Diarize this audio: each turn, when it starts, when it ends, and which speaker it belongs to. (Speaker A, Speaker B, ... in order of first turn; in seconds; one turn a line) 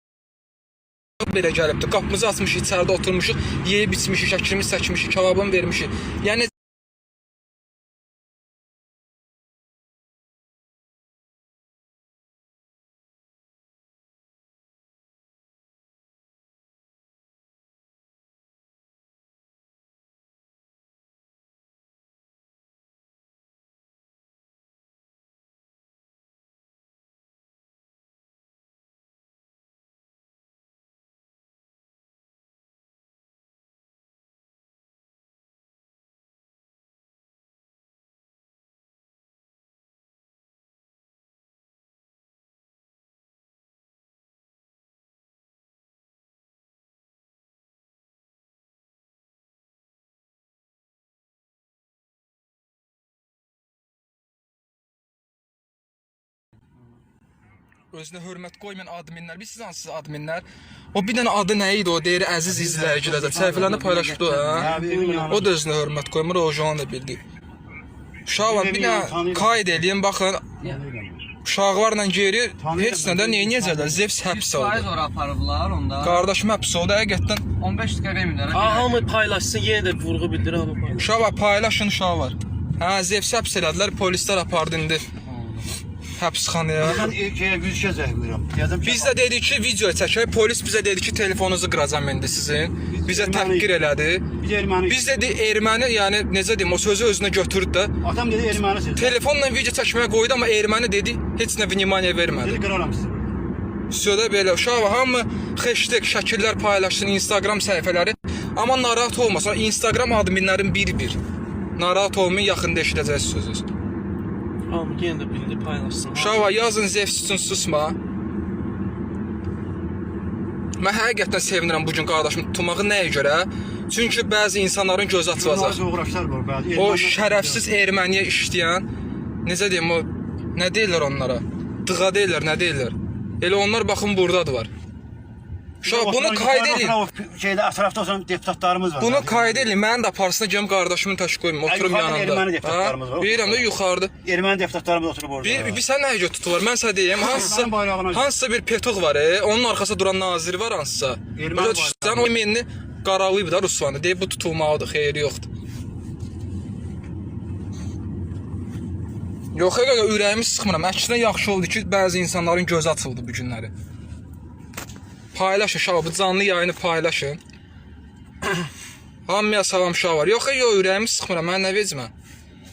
Speaker A: 1.2-6.5
Speaker A: 57.9-67.2
Speaker B: 62.5-63.8
Speaker C: 63.5-64.9
Speaker B: 64.5-65.6
Speaker D: 64.9-65.3
Speaker A: 68.3-70.5
Speaker B: 68.4-69.9
Speaker B: 70.6-71.3
Speaker A: 71.4-74.9
Speaker B: 72.6-74.1
Speaker C: 74.2-76.3
Speaker A: 76.0-77.5
Speaker C: 77.6-79.0
Speaker D: 78.5-81.3
Speaker A: 81.0-85.1
Speaker A: 86.2-87.1
Speaker B: 86.8-89.2
Speaker A: 88.8-94.3
Speaker B: 92.9-93.7
Speaker B: 94.4-95.3
Speaker A: 94.9-98.0
Speaker B: 98.0-99.2
Speaker A: 99.0-102.6
Speaker B: 102.3-103.4
Speaker A: 103.9-111.2
Speaker A: 111.8-113.7
Speaker D: 114.7-116.5
Speaker A: 116.1-118.0
Speaker A: 120.8-125.8
Speaker B: 125.3-127.7
Speaker A: 126.8-128.9
Speaker A: 129.4-134.7
Speaker A: 135.8-137.0
Speaker B: 135.8-139.7
Speaker A: 139.0-144.1
Speaker B: 141.6-145.8
Speaker A: 145.4-155.5
Speaker B: 147.2-148.3
Speaker B: 151.4-152.4
Speaker A: 159.5-163.7
Speaker A: 165.3-167.4
Speaker A: 169.3-172.1